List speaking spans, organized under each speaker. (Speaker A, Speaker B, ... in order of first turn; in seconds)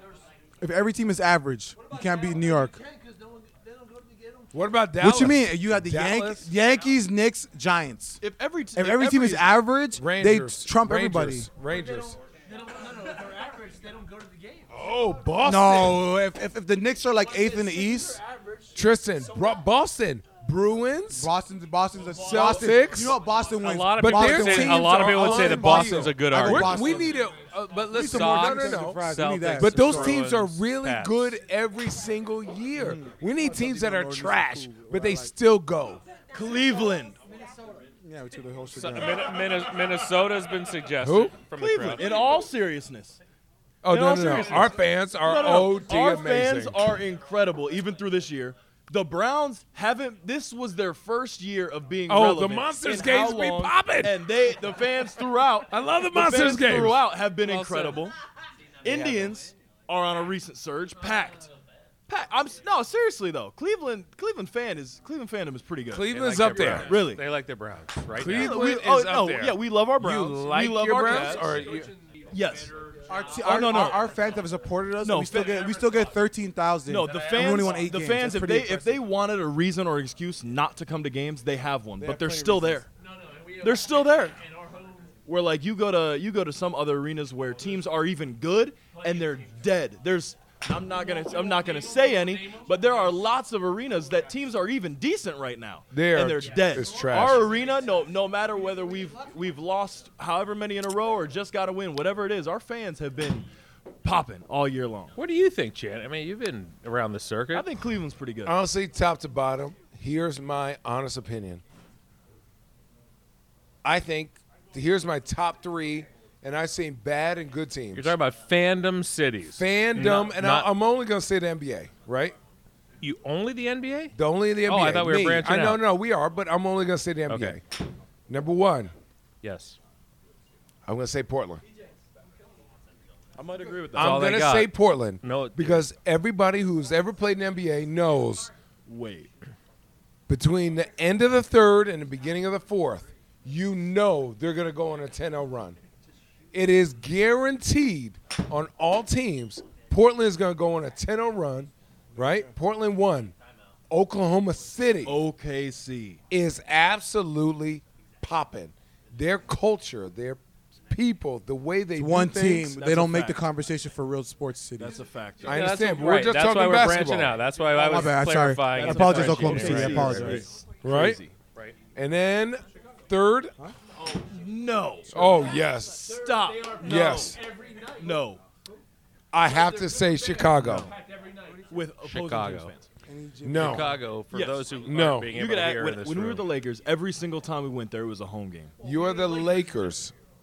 Speaker A: 0.6-2.8, 5.0-8.2, 8.7-11.5, 15.4-18.2, 21.1-27.2, 27.9-30.2, 32.8-35.3, 38.0-39.4, 73.1-79.0, 82.0-82.8, 161.9-165.0, 167.7-170.4, 183.1-183.9
Speaker B: 4.5-6.5, 10.0-12.2, 14.7-16.1, 18.7-21.3, 22.2-23.2, 24.0-29.1, 29.6-36.0, 41.0-41.4, 43.8-46.9, 52.1-54.3, 55.7-57.0, 65.9-67.0, 68.1-69.3, 70.0-71.9, 95.9-97.5, 108.5-111.6, 113.8-118.2, 119.6-122.3, 124.1-127.8, 128.3-128.9, 130.8-131.6, 133.9-138.5, 140.3-145.8, 146.5-153.3, 153.9-155.2, 156.3-162.9, 165.4-167.4, 169.3-171.2, 171.9-173.6, 175.1-177.4, 179.3-180.9, 183.4-183.9, 184.8-185.3, 188.8-190.1
Speaker C: 8.2-9.6, 36.3-37.2, 41.5-43.2, 43.9-58.1, 58.8-61.5, 62.1-67.3, 68.3-71.6, 72.3-72.7, 73.4-74.0, 75.0-75.6, 76.9-82.9, 83.6-84.4, 85.2-103.5, 104.0-105.2, 107.5-108.6, 133.3-134.2, 138.9-139.3, 155.0-156.2, 162.6-163.4, 164.8-165.7, 168.7-171.3, 174.1-178.4, 181.7-182.9, 184.2-184.7, 185.3-188.7
Speaker D: 12.7-14.7, 17.5-18.7, 71.1-73.9, 75.5-76.1, 77.0-77.7, 83.0-85.1, 88.9-89.3, 90.9-93.3
Speaker E: 23.6-27.0, 27.9-31.3, 38.7-42.1, 57.4-58.1, 58.8-59.4, 66.1-69.6, 71.0-71.6, 105.2-107.7, 117.9-120.7, 123.0-125.8, 127.3-127.6, 129.4-129.8, 133.9-135.8, 165.4-170.1, 182.0-182.7, 183.5-186.4